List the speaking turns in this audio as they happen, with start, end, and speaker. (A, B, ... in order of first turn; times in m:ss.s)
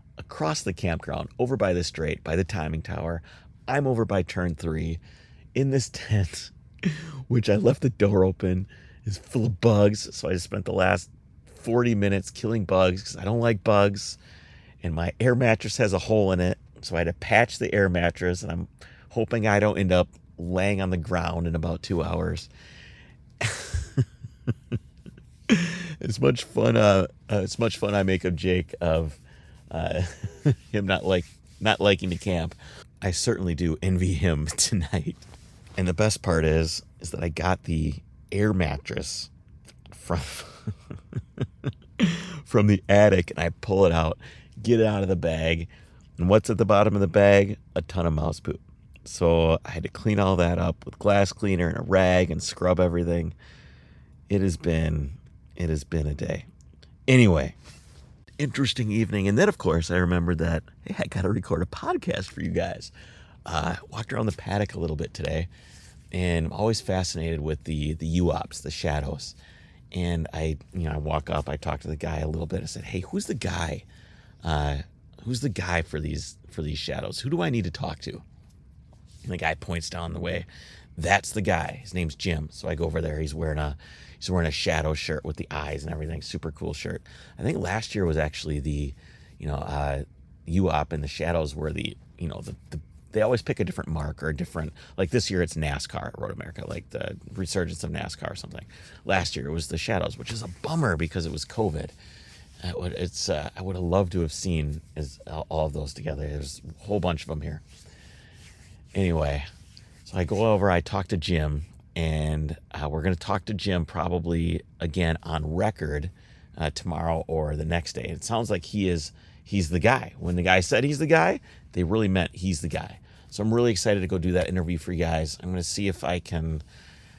0:00.2-0:05.0 A
0:05.6-0:14.2 A
0:14.8-0:22.5 A
0:23.4-0:24.0 A
0:25.5-0:29.2 A
0:29.7-0:39.3 A
0:39.9-0:40.8 A
0:42.0-0:53.4 A
0:54.3-0:56.5 A
0:57.1-0:57.6 A
0:58.4-1:02.9 A
1:03.5-1:05.5 A
1:06.1-1:09.4 A
1:09.9-1:13.9 A
1:14.4-1:18.2 A
1:19.2-1:42.0 A
1:42.6-1:47.6 A
1:49.0-1:49.5 A
1:50.1-2:06.6 A